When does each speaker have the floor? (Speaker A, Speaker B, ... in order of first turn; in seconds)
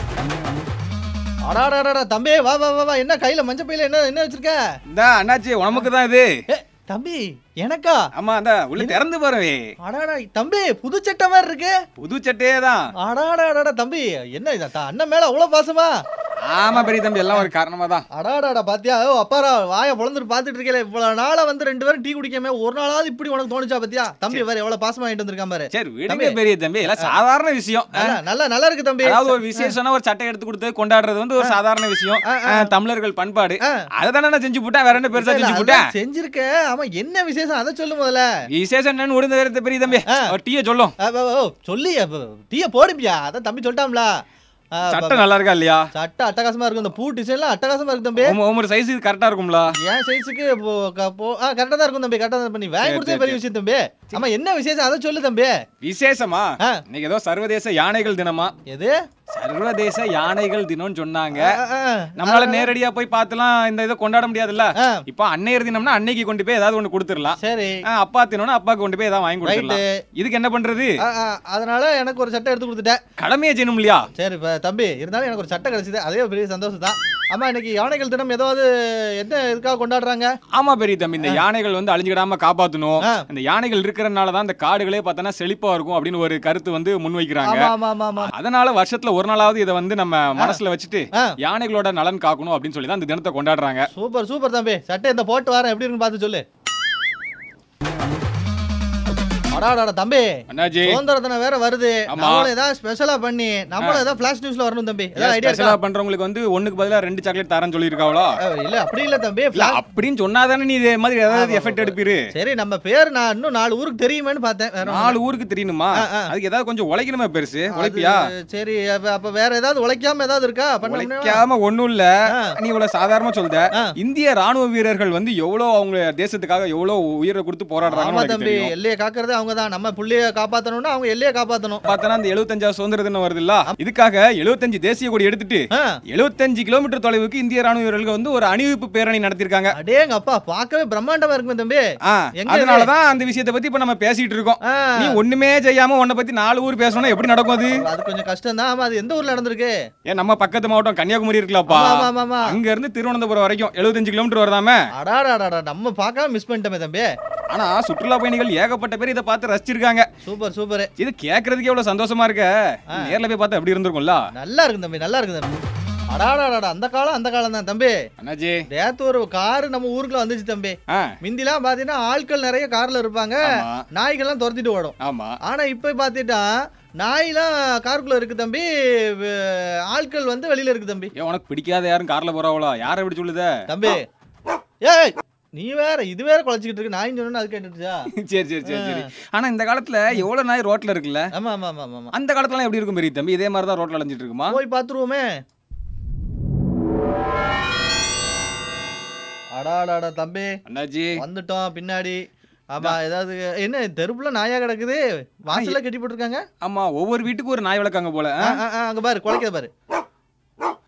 Speaker A: 1.5-4.6, 6.5-8.1, 9.8-11.8, 13.0-16.0, 16.7-17.5, 18.1-26.4, 27.9-29.7, 32.2-32.7, 35.1-38.3, 41.0-44.1, 44.8-45.2, 45.9-48.4, 49.8-55.6, 58.7-59.0, 61.4-62.7, 64.8-65.0, 67.4-67.8, 69.5-69.9, 71.0-73.0, 74.2-80.3, 83.0-83.3, 87.4-88.3, 93.9-96.4, 99.5-105.8, 108.5-109.8, 111.3-115.2, 116.0-116.3, 117.7-121.4, 127.9-131.9, 139.8-141.8, 142.4-142.9, 144.7-145.2, 147.7-149.8, 151.7-152.6, 154.9-157.1, 160.2-160.9, 164.3-165.6, 166.1-168.0, 168.7-181.1, 183.7-184.1, 184.8-188.1, 188.7-189.1, 191.3-192.1, 194.5-195.3, 199.6-200.5, 201.2-206.4, 208.5-209.7
Speaker B: 4.9-6.3, 8.2-9.7, 12.0-12.9, 16.4-18.1, 25.7-28.2, 29.0-35.9, 38.5-41.0, 44.9-45.9, 48.2-49.8, 52.8-53.4, 55.8-58.5, 59.3-61.6, 62.2-71.0, 73.2-74.1, 80.5-93.9, 100.5-101.0, 102.1-102.5, 105.2-108.3, 109.5-112.2, 114.9-118.2, 120.8-128.7, 131.9-139.7, 142.1-147.8, 150.1-154.8, 157.5-160.1, 161.0-164.3, 168.2-168.6, 170.9-171.2, 173.4-173.8, 175.0-175.4, 181.2-183.5, 188.2-191.3, 192.1-194.6, 200.7-201.2, 205.5-205.8, 206.6-208.6